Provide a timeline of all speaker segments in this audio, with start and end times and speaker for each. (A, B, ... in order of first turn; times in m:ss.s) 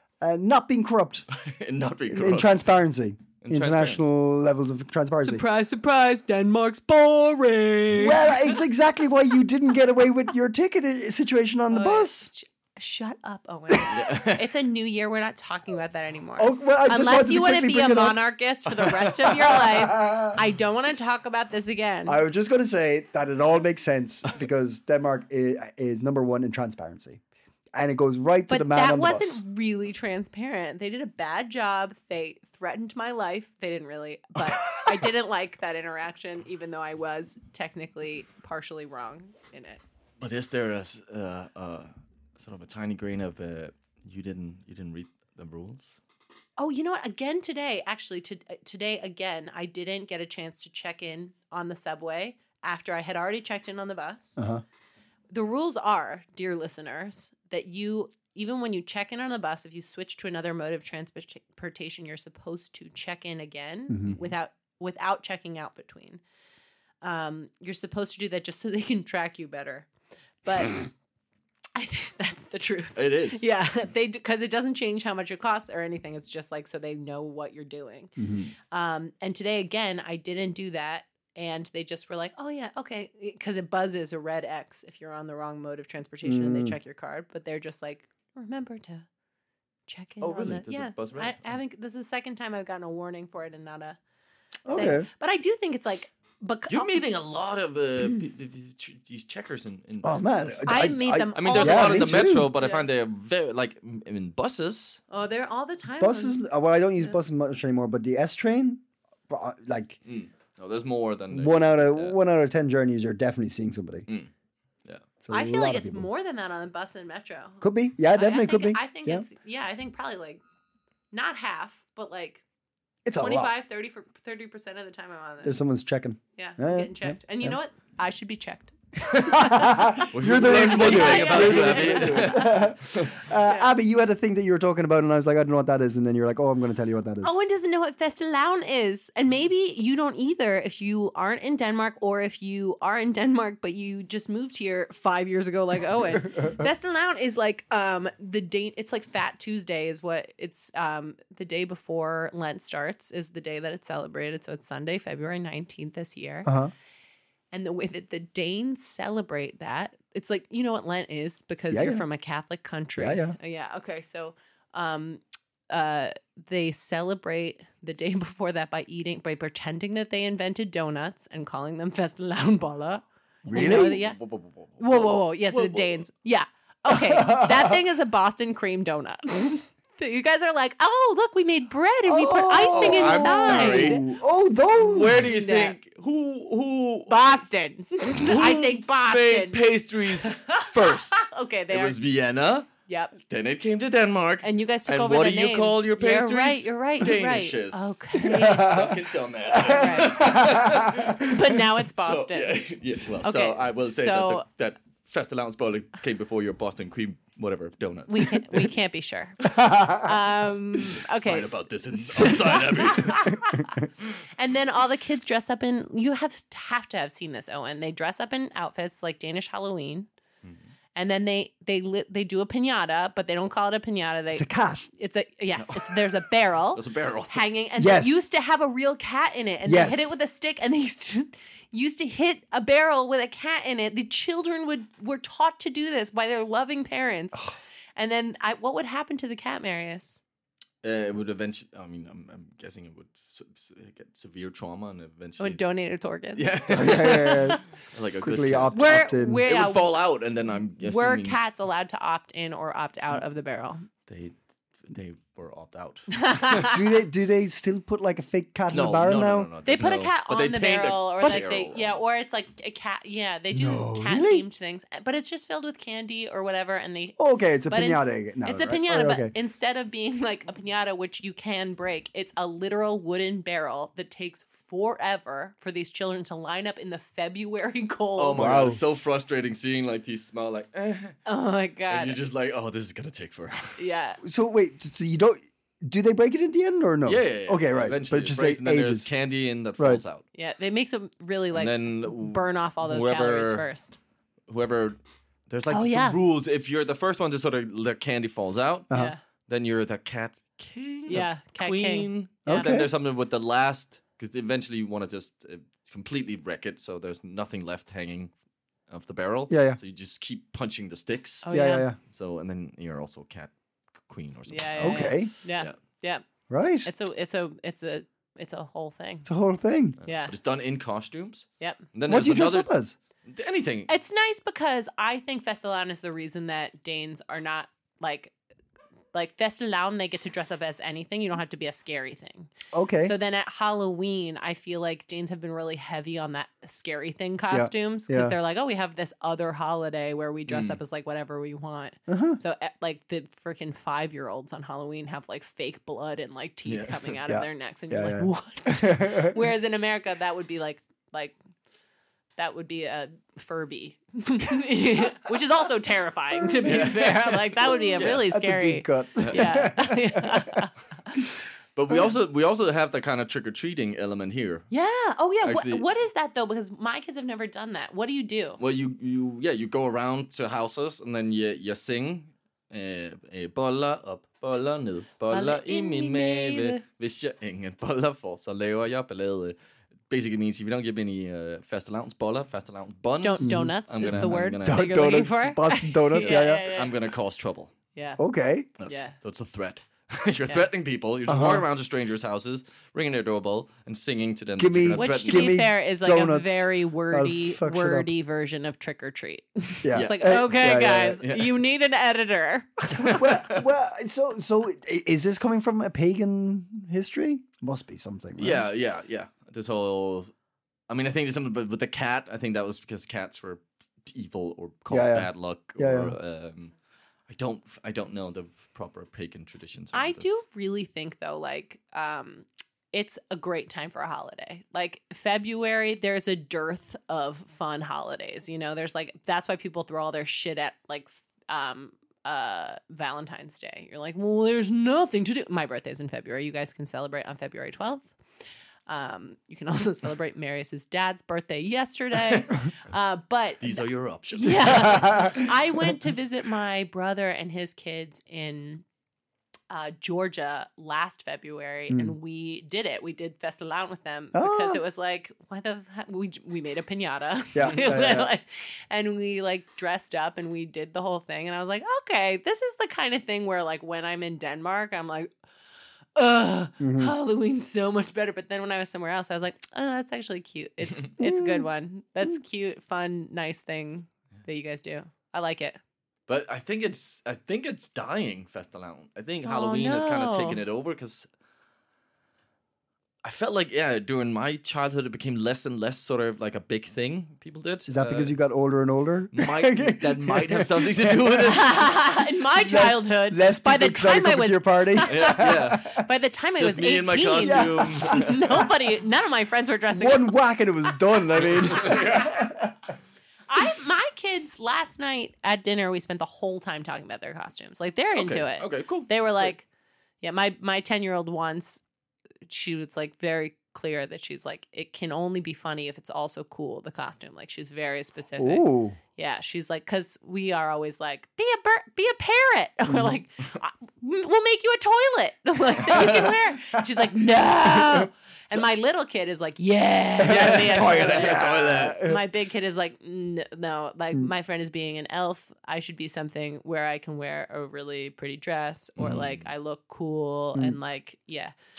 0:00.2-0:01.2 A
0:01.3-0:02.6 B
0:02.1-0:05.4 A
0:03.4-0:04.0 B
0:05.2-0:08.4 C
0:07.9-0:12.3 A
0:11.7-0:22.2 C
0:13.9-0:14.5 B
0:16.4-0:18.2 A
0:19.2-0:20.4 A
0:22.0-0:27.2 A
0:27.7-0:29.4 A
0:28.5-0:39.8 C
0:40.2-0:46.0 B
0:46.6-0:54.4 C
0:54.4-0:54.6 A
0:55.3-1:06.2 C
1:03.9-1:04.2 A
1:07.0-1:09.9 C
1:10.4-1:10.9 C
1:11.7-1:18.1 C
1:13.0-1:13.4 B
1:18.2-1:18.5 A
1:18.7-1:29.1 C
1:26.2-1:26.8 A
1:29.9-1:34.0 C
1:30.2-1:31.6 B
1:34.6-1:35.1 A
1:34.7-1:36.9 C
1:36.7-1:45.0 B
1:40.0-1:42.5 A
1:40.6-1:42.8 C
1:45.1-1:46.4 C
1:46.0-1:50.0 A
1:50.0-1:52.1 B
1:51.3-1:54.0 A
1:55.2-1:56.1 A
1:55.3-2:00.4 C
1:57.6-1:59.2 A
2:01.1-2:02.4 C
2:03.0-2:03.5 A
2:03.2-2:05.6 C
2:05.4-2:07.6 A
2:06.4-2:12.7 C
2:09.2-2:17.4 A
2:10.1-2:13.1 B
2:13.4-2:13.7 C
2:17.2-2:36.5 C
2:36.4-2:36.7 A
2:37.5-2:54.2 C
2:41.7-2:42.0 A
2:43.0-2:43.4 A
2:53.4-2:54.0 A
2:53.5-2:56.0 B
2:54.8-3:04.0 C
2:56.9-2:57.8 A
3:02.0-3:05.4 A
3:02.7-3:04.0 B
3:04.8-3:07.2 B
3:05.1-3:05.8 C
3:07.1-3:12.0 C
3:08.1-3:28.7 B
3:12.9-3:13.1 C
3:14.4-3:18.8 C
3:18.3-3:18.9 A
3:19.5-3:21.2 A
3:19.6-3:20.3 C
3:21.2-3:22.6 C
3:23.2-3:24.4 C
3:28.1-3:31.5 C
3:31.0-3:33.4 B
3:32.1-3:40.1 C
3:40.9-4:00.2 C
3:44.3-3:44.9 A
3:45.6-3:46.1 B
3:46.7-3:47.4 B
3:47.8-3:48.2 A
3:49.6-3:50.1 A
4:00.8-4:05.6 B
4:05.4-4:07.5 C
4:06.3-4:08.8 B
4:06.7-4:07.6 A
4:08.2-4:09.4 A
4:08.7-4:10.0 C
4:09.4-4:11.4 B
4:10.8-4:13.8 C
4:14.1-4:16.7 B
4:16.1-4:16.8 C
4:16.6-4:19.5 A
4:18.7-4:22.0 B
4:19.6-4:38.7 C
4:23.5-4:24.4 A
4:27.2-4:29.3 A
4:38.2-4:41.2 B
4:38.3-4:38.8 A
4:41.2-4:42.2 C
4:41.9-4:43.8 B
4:43.8-4:44.2 C
4:44.2-4:49.1 A
4:47.0-4:50.2 B
4:50.3-4:54.0 C
4:51.5-4:53.6 B
4:54.5-4:55.0 B
4:55.5-4:58.9 B
4:55.7-4:56.2 C
4:58.9-4:59.2 C
4:59.5-5:08.3 B
5:01.1-5:02.7 C
5:02.4-5:02.9 A
5:08.9-5:11.5 B
5:09.5-5:09.8 A
5:11.4-5:11.9 C
5:11.5-5:12.0 A
5:12.0-5:13.5 B
5:14.0-5:15.7 B
5:14.5-5:16.2 C
5:14.8-5:15.3 A
5:16.5-5:16.9 A
5:16.8-5:19.3 C
5:19.2-5:20.0 A
5:20.0-5:22.7 B
5:20.0-5:20.3 C
5:21.6-5:21.8 C
5:22.1-5:23.0 A
5:23.3-5:23.9 B
5:23.9-5:28.3 C
5:29.1-5:32.5 C
5:32.7-5:33.1 A
5:33.0-5:51.4 C
5:37.5-5:38.3 A
5:40.5-5:40.8 B
5:42.1-5:42.4 A
5:46.7-5:47.1 B
5:47.3-5:49.4 A
5:52.4-6:00.7 C
5:56.4-5:56.9 A
5:56.6-5:58.3 B
5:58.0-6:00.5 A
5:59.2-5:59.5 B
6:01.7-6:04.7 B
6:04.7-6:08.6 C
6:05.4-6:05.8 B
6:08.6-6:19.6 B
6:15.3-6:16.8 C
6:20.1-6:25.2 B
6:23.2-6:26.9 C
6:23.4-6:26.7 A
6:26.2-6:27.7 B
6:28.0-6:28.2 C
6:28.2-6:28.7 A
6:28.8-6:35.7 B
6:28.8-6:29.1 C
6:31.3-6:31.6 A
6:34.6-6:38.1 A
6:34.9-6:43.2 C
6:39.8-6:41.2 A
6:39.9-6:40.5 B
6:41.2-6:41.5 B
6:43.0-6:48.6 A
6:43.1-6:43.6 B
6:48.4-6:50.3 B
6:50.9-6:56.7 B
6:54.9-6:56.1 A
6:57.3-7:00.3 B
6:59.9-7:18.1 C
7:18.9-7:28.8 C
7:23.6-7:25.2 B
7:24.8-7:25.4 A
7:29.7-7:45.3 C
7:31.9-7:32.1 A
7:34.3-7:34.8 A
7:37.5-7:38.3 A
7:46.1-7:55.8 C
7:46.8-7:47.1 A
7:51.2-7:51.7 A
7:56.3-8:01.3 B
7:59.4-8:00.6 C
8:03.2-8:08.3 B
8:07.9-8:11.6 A
8:09.3-8:11.8 B
8:11.4-8:20.4 C
8:12.5-8:16.0 A
8:15.1-8:15.9 B
8:16.5-8:18.4 B
8:17.4-8:18.6 A
8:19.9-8:22.7 A
8:21.4-8:22.4 B
8:21.8-8:22.3 C
8:23.5-8:29.6 C
8:28.1-8:29.5 B
8:30.2-8:31.8 C
8:32.4-9:01.5 C
8:38.4-8:39.0 A
8:45.9-8:47.1 A
8:45.9-8:46.3 B
8:47.6-8:48.1 A
8:50.2-8:52.2 A
8:50.2-8:52.0 B
8:59.0-8:59.4 B